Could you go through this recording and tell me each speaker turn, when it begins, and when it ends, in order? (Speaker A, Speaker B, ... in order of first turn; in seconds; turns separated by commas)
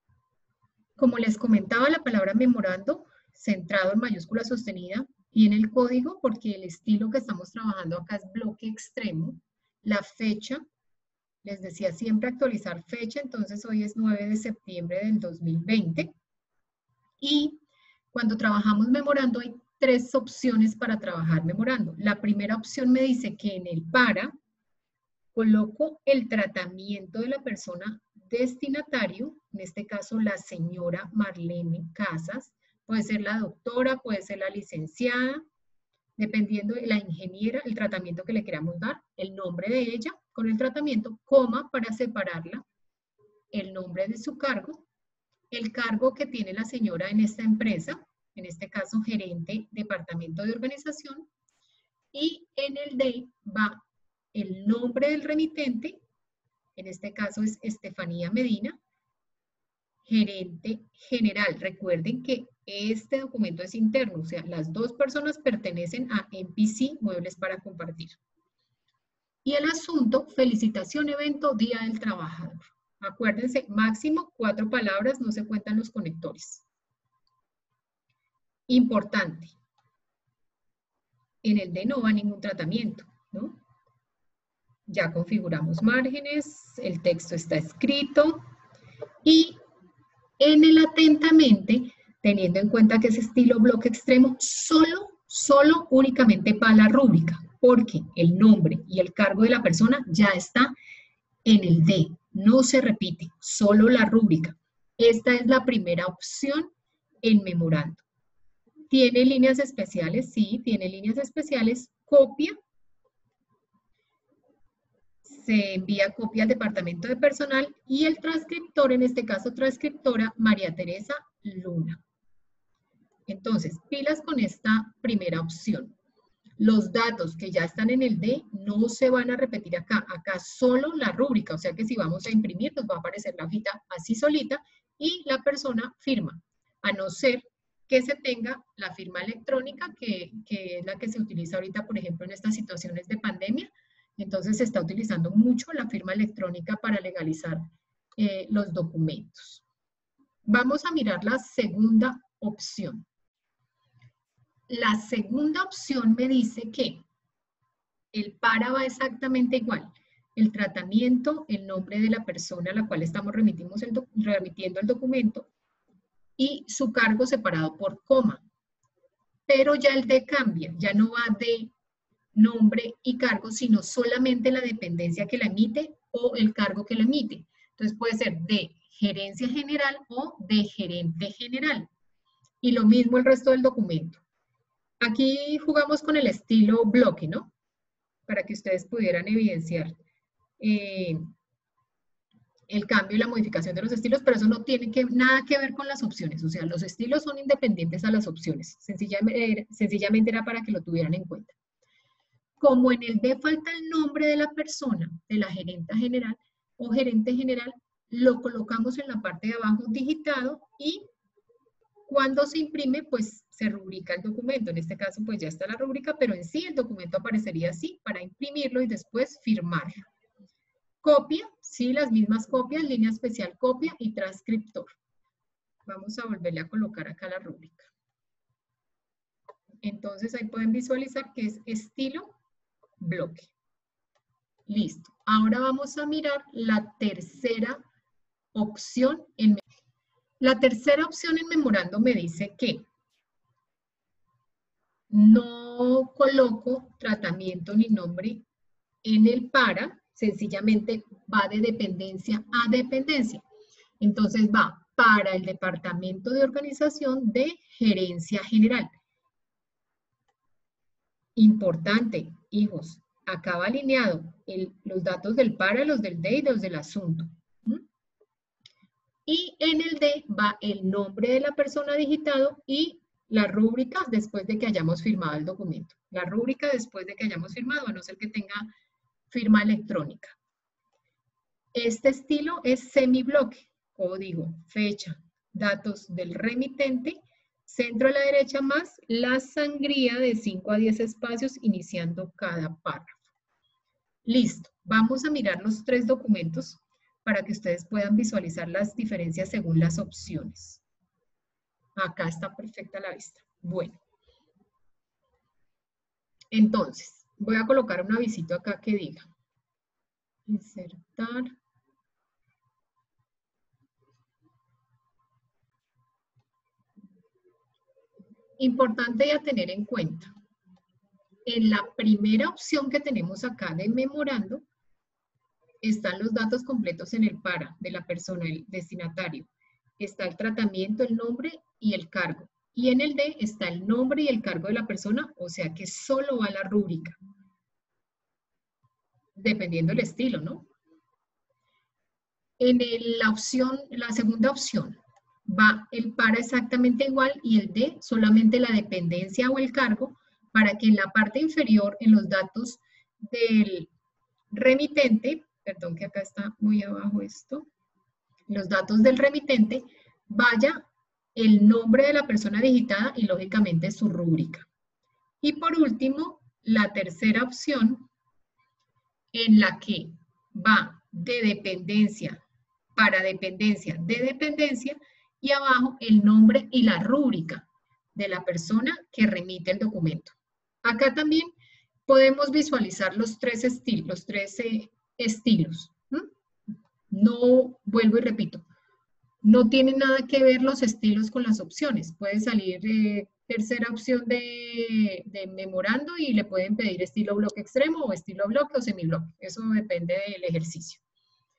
Speaker A: 1.0-10.6, Speaker A: 11.4-16.1, Speaker A: 17.2-17.6, Speaker A: 18.1-24.3, Speaker A: 25.4-35.4, Speaker A: 36.2-42.6, Speaker A: 43.5-44.9, Speaker A: 45.5-51.3, Speaker A: 52.1-53.8, Speaker A: 54.3-56.0, Speaker A: 56.8-58.8, Speaker A: 60.0-68.2, Speaker A: 69.5-76.7, Speaker A: 78.7-79.5, Speaker A: 81.4-83.6, Speaker A: 84.9-88.4, Speaker A: 89.2-89.6, Speaker A: 90.4-100.7, Speaker A: 101.5-106.7, Speaker A: 107.2-108.0, Speaker A: 108.9-112.5, Speaker A: 115.2-122.0, Speaker A: 123.3-126.0, Speaker A: 126.6-147.6, Speaker A: 148.2-149.7, Speaker A: 150.4-153.1, Speaker A: 154.7-157.0, Speaker A: 158.1-165.5, Speaker A: 166.4-168.4, Speaker A: 169.5-171.7, Speaker A: 172.3-181.9, Speaker A: 182.6-184.2, Speaker A: 185.0-187.5, Speaker A: 188.3-190.0, Speaker A: 190.6-191.2, Speaker A: 192.7-201.6, Speaker A: 202.6-211.1, Speaker A: 212.1-220.1, Speaker A: 221.0-224.9, Speaker A: 225.9-227.9, Speaker A: 229.8-232.3, Speaker A: 233.0-233.5, Speaker A: 234.7-237.8, Speaker A: 238.5-239.6, Speaker A: 240.4-242.9, Speaker A: 245.1-248.4, Speaker A: 249.0-253.4, Speaker A: 254.0-258.9, Speaker A: 261.4-267.8, Speaker A: 269.3-278.7, Speaker A: 279.3-280.4, Speaker A: 281.7-293.2, Speaker A: 294.2-300.8, Speaker A: 302.0-304.0, Speaker A: 306.5-309.3, Speaker A: 310.5-311.5, Speaker A: 318.6-320.3, Speaker A: 321.5-324.6, Speaker A: 325.8-337.2, Speaker A: 339.4-340.7, Speaker A: 342.6-353.9, Speaker A: 354.5-357.7, Speaker A: 358.5-360.8, Speaker A: 361.4-364.7, Speaker A: 365.4-368.1, Speaker A: 369.3-372.4, Speaker A: 373.0-381.5, Speaker A: 382.1-386.3, Speaker A: 387.1-388.6, Speaker A: 389.4-401.0